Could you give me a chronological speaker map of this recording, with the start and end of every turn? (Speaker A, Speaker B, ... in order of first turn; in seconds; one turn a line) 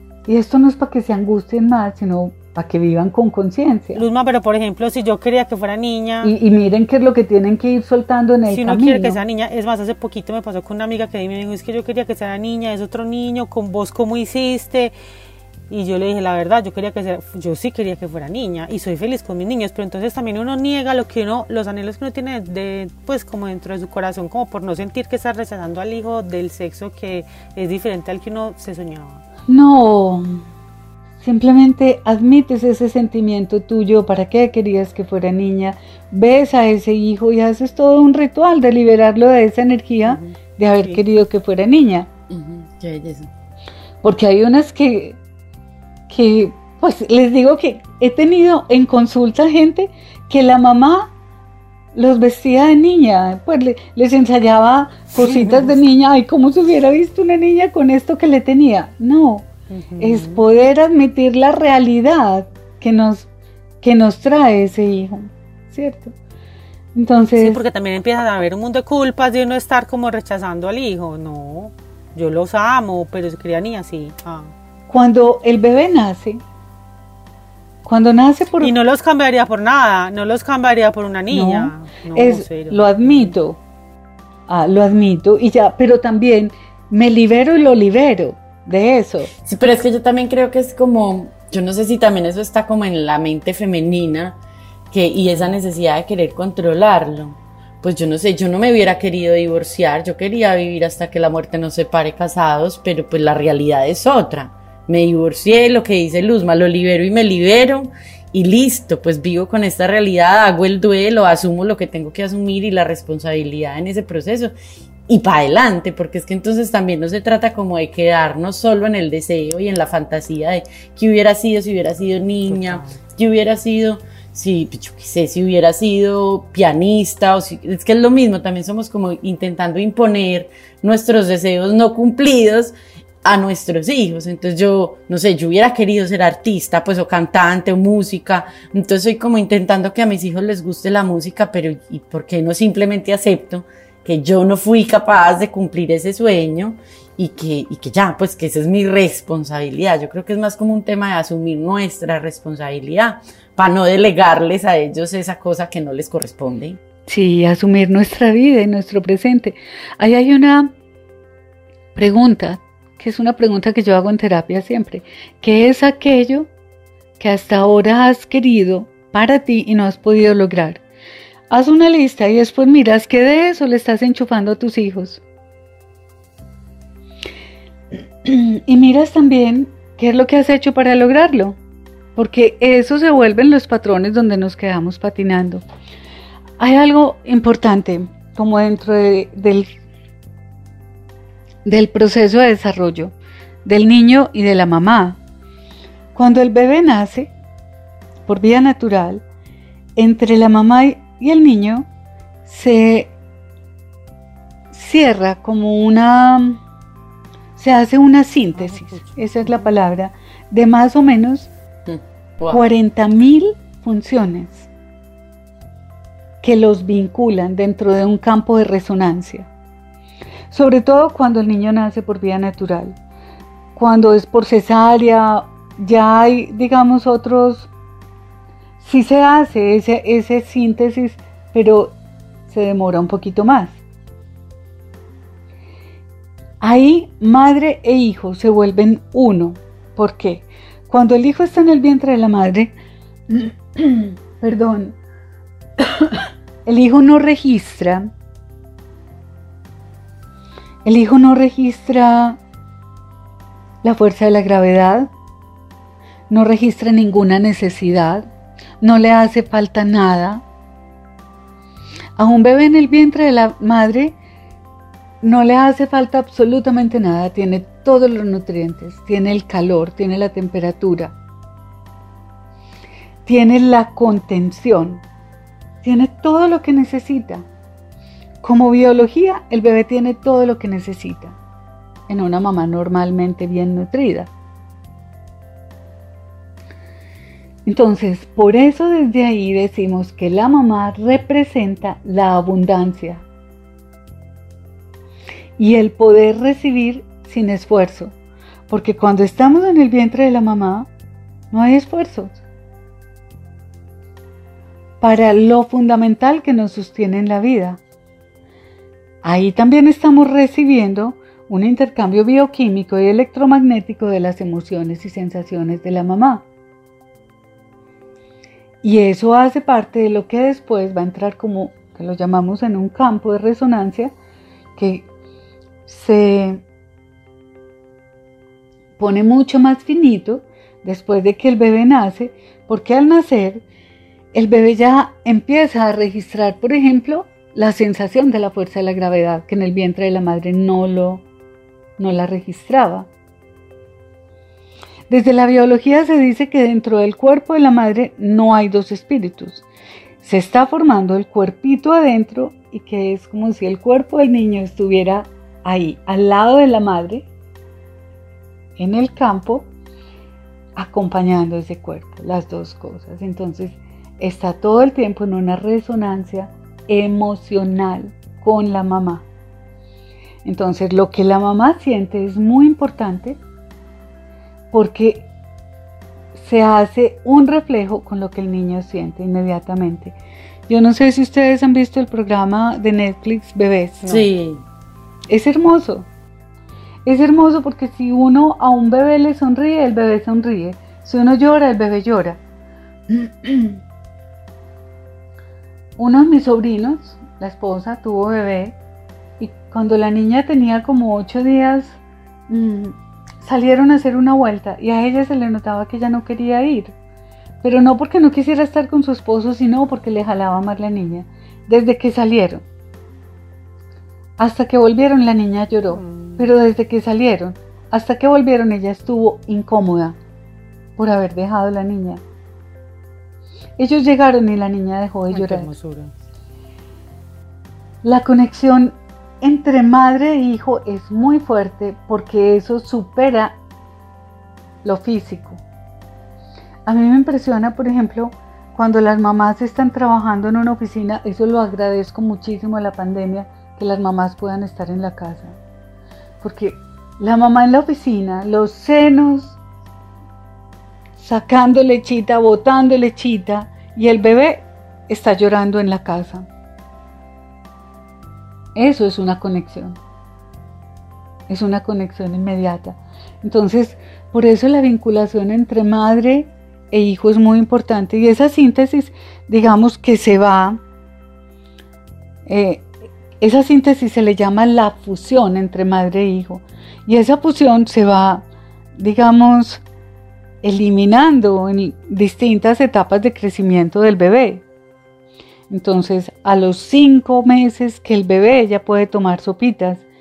Speaker A: 0.3-4.0
Speaker B: 4.0-6.3
Speaker A: 6.2-9.2
Speaker B: 8.5-14.9
Speaker B: 15.7-29.2
Speaker A: 29.5-30.4
Speaker A: 31.2-42.1
Speaker C: 42.3-43.3
Speaker A: 44.0-45.2
Speaker A: 46.1-51.1
Speaker A: 51.9-59.5
Speaker B: 55.2-55.8
Speaker B: 59.7-60.4
Speaker A: 60.0-63.3
Speaker A: 63.8-66.1
Speaker A: 67.0-67.6
Speaker B: 67.4-74.5
Speaker A: 74.9-76.4
Speaker A: 77.8-78.7
Speaker B: 78.6-83.3
Speaker A: 81.3-83.6
Speaker A: 84.5-89.3
Speaker C: 89.5-94.4
Speaker C: 94.9-114.5
Speaker B: 95.3-95.6
Speaker C: 115.1-156.8
Speaker B: 122.5-123.0
Speaker A: 157.1-160.7
Speaker A: 161.9-166.5
Speaker A: 167.2-170.8
Speaker A: 171.5-175.2
Speaker A: 177.9-181.6
Speaker A: 182.2-185.6
Speaker A: 186.6-189.7
Speaker A: 191.7-193.1
Speaker A: 193.7-195.2
Speaker A: 196.2-197.3
Speaker A: 198.3-199.2
Speaker A: 200.0-201.9
Speaker A: 202.5-203.1
Speaker A: 204.7-206.6
Speaker A: 207.6-211.5
Speaker B: 208.6-209.7
Speaker C: 211.9-212.6
Speaker A: 212.5-214.7
Speaker A: 216.4-219.5
Speaker A: 220.5-223.0
Speaker A: 223.8-227.7
Speaker A: 228.8-231.9
Speaker A: 232.5-233.8
Speaker A: 236.6-242.7
Speaker A: 243.3-245.0
Speaker A: 245.8-248.1
Speaker A: 250.8-252.4
Speaker A: 253.8-255.1
Speaker A: 256.3-258.3
Speaker A: 258.8-260.4
Speaker A: 262.2-264.2
Speaker A: 265.2-271.1
Speaker A: 273.3-275.0
Speaker A: 275.8-277.5
Speaker A: 278.4-281.4
Speaker A: 282.1-284.3
Speaker A: 287.6-293.2
Speaker A: 295.6-298.1
Speaker A: 298.7-300.9
Speaker A: 301.5-302.4
Speaker A: 305.0-307.8
Speaker A: 309.2-316.4
Speaker A: 318.8-324.1
Speaker A: 324.8-325.1
Speaker A: 325.9-326.6
Speaker A: 329.0-333.6
Speaker A: 334.3-341.2
Speaker A: 342.0-343.1
Speaker A: 345.1-349.6
Speaker A: 350.2-357.3
Speaker A: 358.8-359.7
Speaker A: 360.8-369.2
Speaker A: 370.4-373.4
Speaker A: 374.7-375.3
Speaker A: 376.4-380.2
Speaker A: 380.7-384.1
Speaker C: 384.1-384.6
Speaker A: 385.3-386.1
Speaker A: 387.1-392.4
Speaker A: 393.1-393.8
Speaker A: 396.0-398.8
Speaker A: 399.4-402.0
Speaker A: 402.5-406.9
Speaker A: 407.6-412.6
Speaker A: 414.4-420.2
Speaker B: 415.9-416.5
Speaker A: 421.0-422.2
Speaker A: 423.8-425.7
Speaker B: 425.3-426.1
Speaker A: 428.0-433.6
Speaker A: 434.8-435.6
Speaker A: 436.9-445.6
Speaker A: 446.4-449.6
Speaker A: 451.2-456.5
Speaker A: 458.8-460.0
Speaker A: 461.5-470.8
Speaker A: 472.5-472.9
Speaker A: 473.4-479.8
Speaker A: 480.6-484.6
Speaker A: 485.7-490.0